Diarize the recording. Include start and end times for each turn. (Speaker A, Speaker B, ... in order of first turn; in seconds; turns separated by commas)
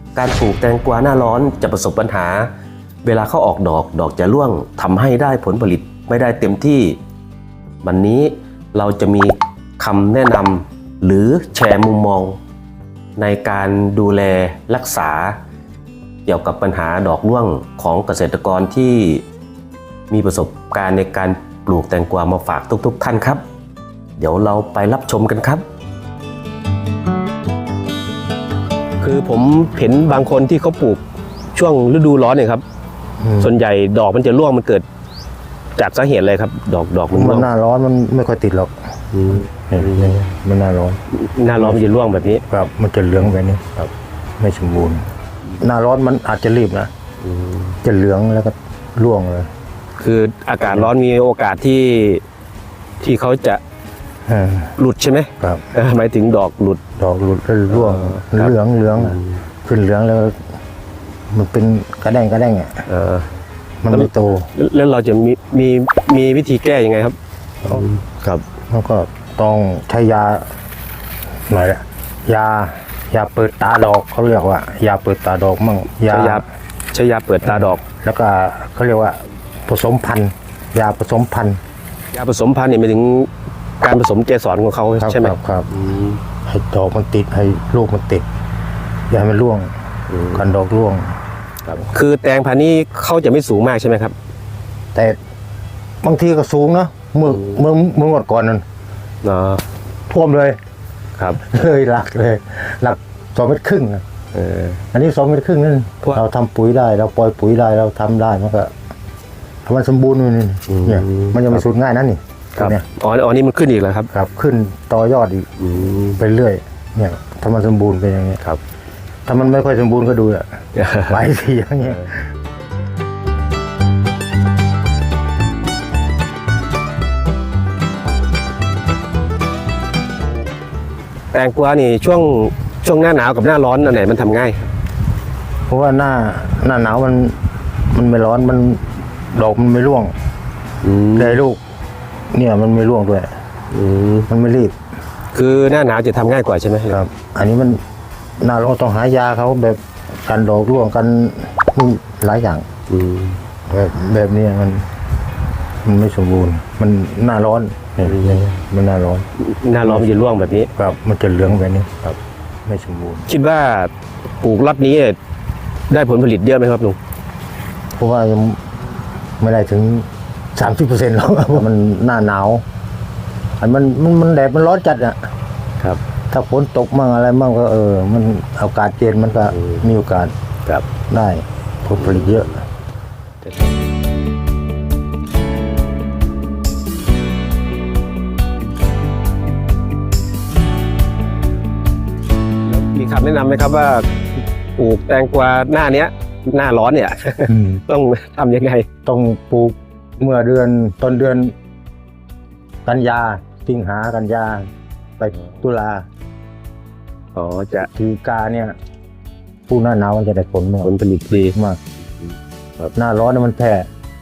Speaker A: 0.1-2.5, Speaker A: 3.0-7.0, Speaker A: 7.8-12.4, Speaker A: 13.2-15.4, Speaker A: 16.3-19.2, Speaker A: 20.1-23.4, Speaker A: 24.2-25.6, Speaker A: 29.0-31.0, Speaker A: 31.5-32.6, Speaker B: 33.2-33.5, Speaker A: 33.4-34.8, Speaker A: 35.8-37.5, Speaker B: 37.1-38.8, Speaker A: 39.1-40.2, Speaker B: 39.7-41.0, Speaker A: 41.1-42.5, Speaker B: 42.5-45.0, Speaker B: 45.6-46.9, Speaker A: 47.2-47.8, Speaker B: 47.8-49.5, Speaker A: 50.0-52.2, Speaker A: 53.0-53.6, Speaker B: 54.3-54.7, Speaker A: 54.8-56.8, Speaker B: 55.4-55.7, Speaker B: 57.0-60.4, Speaker A: 57.7-59.4, Speaker B: 61.3-62.8, Speaker A: 62.9-63.3, Speaker B: 63.8-64.5, Speaker A: 63.9-68.5, Speaker B: 68.7-70.5, Speaker B: 71.5-76.4, Speaker A: 76.1-77.8, Speaker B: 77.4-81.6, Speaker A: 82.1-83.3, Speaker A: 83.8-86.2, Speaker B: 85.0-85.7, Speaker B: 86.5-88.2, Speaker B: 89.1-89.7, Speaker A: 90.1-90.5, Speaker B: 90.3-91.1, Speaker A: 91.7-94.2, Speaker B: 96.0-98.6, Speaker A: 99.2-99.6, Speaker B: 100.1-100.6, Speaker B: 101.3-104.0, Speaker A: 104.3-104.8, Speaker B: 104.9-108.7, Speaker B: 109.7-112.8, Speaker A: 110.7-111.7, Speaker A: 112.6-114.1, Speaker B: 114.1-115.5, Speaker A: 115.6-116.2, Speaker B: 116.2-118.4, Speaker B: 119.3-122.2, Speaker A: 120.8-121.2, Speaker A: 131.3-134.7, Speaker B: 135.7-137.4, Speaker B: 137.9-140.1, Speaker A: 140.8-141.4, Speaker B: 141.2-141.6, Speaker B: 142.3-143.3, Speaker A: 143.7-144.3, Speaker B: 144.3-144.8, Speaker A: 145.3-147.0, Speaker B: 146.9-147.8, Speaker B: 148.4-152.7, Speaker A: 152.9-153.4, Speaker B: 153.7-154.9, Speaker B: 155.8-159.3, Speaker A: 158.0-158.4, Speaker A: 159.4-160.7, Speaker B: 160.8-163.3, Speaker A: 163.3-165.2, Speaker A: 165.9-167.0, Speaker B: 168.0-168.6, Speaker B: 169.4-172.6, Speaker B: 173.6-175.2, Speaker B: 176.3-180.3, Speaker A: 179.5-179.9, Speaker B: 181.1-182.6, Speaker A: 192.7-194.1, Speaker A: 194.8-198.9, Speaker B: 197.5-197.8, Speaker B: 199.1-201.6, Speaker B: 202.8-204.7, Speaker B: 205.2-206.1, Speaker A: 207.3-207.9, Speaker B: 207.9-208.8, Speaker B: 209.7-210.9, Speaker A: 210.8-211.6, Speaker B: 211.5-211.8, Speaker B: 212.9-213.9